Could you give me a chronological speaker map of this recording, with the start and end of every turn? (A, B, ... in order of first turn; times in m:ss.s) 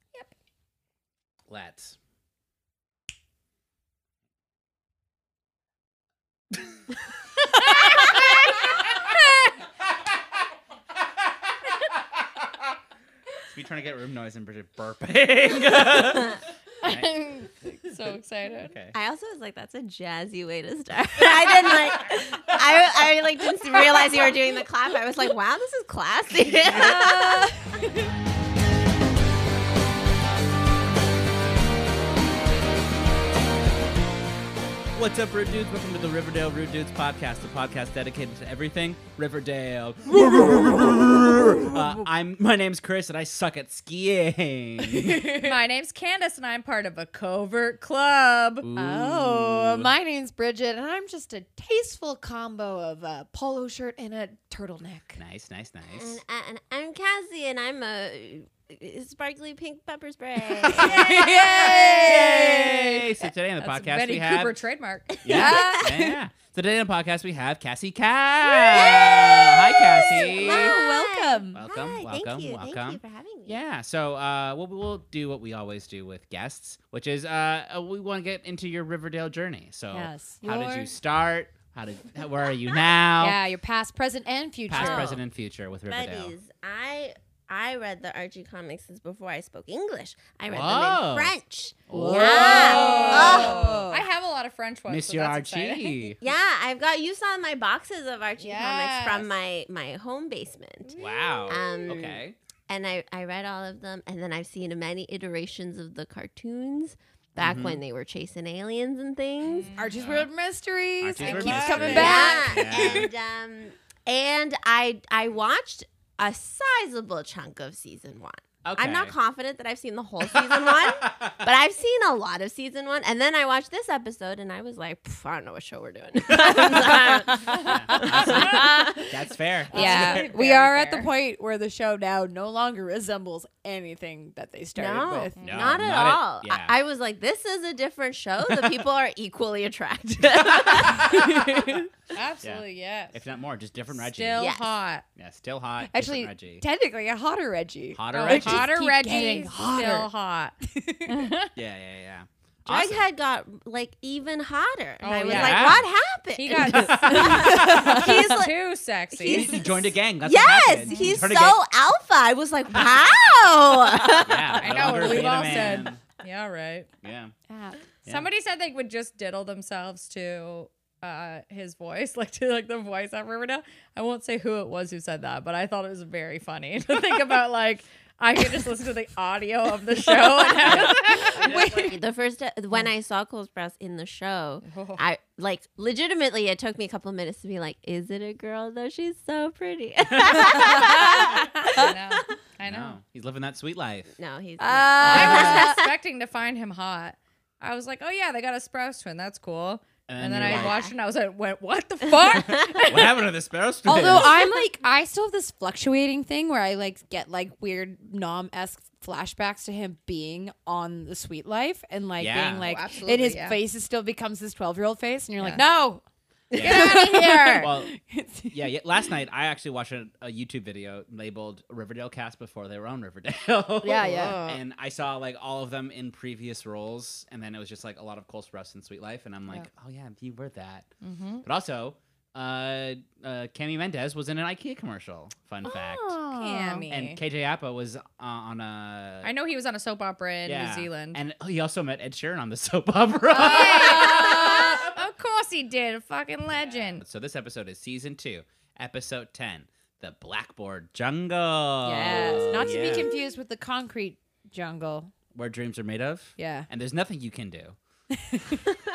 0:01.5-0:02.0 A
0:07.7-0:08.3 B
0:09.0-0:09.5 B
0:13.5-0:17.1 A
0:16.8-0:18.8 B
0:18.6-0:19.0 A
0:18.9-0:27.5 C
0:26.7-0:27.6 D
0:34.9-0:45.5 A
0:44.9-0:45.4 D
0:45.4-0:48.7 B
0:48.6-0:49.9 A
0:48.8-0:55.2 D
0:55.2-0:56.2 A
0:55.9-1:02.3 C
1:00.5-1:04.6 A
1:00.7-1:03.1 D
1:03.6-1:05.5 B
1:05.2-1:05.8 C
1:05.2-1:10.8 A
1:05.3-1:06.2 D
1:08.5-1:13.6 C
1:10.0-1:11.6 D
1:11.6-1:23.4 A
1:19.9-1:20.9 D
1:23.2-1:25.2 D
1:24.7-1:26.3 A
1:24.7-1:25.2 C
1:25.9-1:33.9 C
1:30.5-1:31.3 A
1:31.9-1:33.8 A
1:31.9-1:34.0 D
1:32.5-1:36.2 B
1:34.9-1:36.2 A
1:36.2-1:41.0 C
1:38.4-1:39.3 B
1:40.9-1:41.9 D
1:41.0-1:42.4 A
1:41.5-1:49.7 C
1:47.4-1:47.8 A
1:49.5-1:50.0 B
1:49.7-1:53.1 D
1:50.0-1:50.3 A
1:51.0-1:53.1 A
1:51.2-2:09.1 C
1:58.6-1:59.1 A
2:00.2-2:01.3 A
2:06.3-2:10.3 A
2:07.5-2:08.7 B
2:07.5-2:09.1 D
2:09.7-2:11.1 B
2:09.7-2:15.4 D
2:14.7-2:21.5 C
2:15.4-2:15.8 B
2:15.4-2:16.7 A
2:20.4-2:21.5 A
2:22.1-2:23.2 B
2:22.4-2:24.5 A
2:23.9-2:25.0 B
2:24.4-2:24.7 C
2:25.2-2:26.6 A
2:25.9-2:30.1 D
2:27.9-2:28.7 A
2:28.1-2:31.5 B
2:30.8-2:31.1 D
2:31.5-2:33.0 A
2:32.7-2:38.5 C
2:35.0-2:35.8 B
2:35.2-2:35.9 A
2:36.4-2:39.6 B
2:36.6-2:38.0 A
2:37.2-2:37.9 D
2:39.1-2:45.1 C
2:39.2-2:41.6 A
2:40.9-2:41.2 D
2:44.2-2:46.0 A
2:44.6-2:46.9 B
2:47.0-2:47.3 A
2:47.5-2:47.8 D
2:48.1-3:01.5 B
3:00.6-3:01.9 D
3:00.6-3:01.7 A
3:01.3-3:11.9 C
3:04.6-3:05.0 B
3:10.2-3:11.1 A
3:10.5-3:11.9 D
3:11.7-3:13.0 B
3:12.6-3:14.1 A
3:14.2-3:15.9 C
3:14.6-3:15.8 D
3:15.0-3:23.2 B
3:15.1-3:15.6 A
3:20.1-3:20.8 A
3:20.4-3:20.9 C
3:22.3-3:22.8 C
3:22.3-3:24.4 A
3:23.8-3:38.7 D
3:24.0-3:24.6 C
3:32.2-3:32.7 A
3:32.6-3:33.6 B
3:36.5-3:37.9 A
3:36.6-3:36.8 C
3:36.8-3:37.6 B
3:38.5-3:50.9 A
3:43.8-3:44.4 D
3:44.0-3:44.6 B
3:51.0-3:51.4 B
3:51.4-3:56.2 A
3:55.6-3:56.9 D
3:56.3-3:57.2 B
3:56.9-3:59.3 A
3:59.2-4:01.2 B
4:00.4-4:04.9 A
4:03.3-4:07.0 B
4:03.4-4:04.8 D
4:06.6-4:13.1 A
4:11.8-4:15.1 D
4:15.3-4:17.8 A
4:16.4-4:16.7 D
4:18.3-4:18.6 D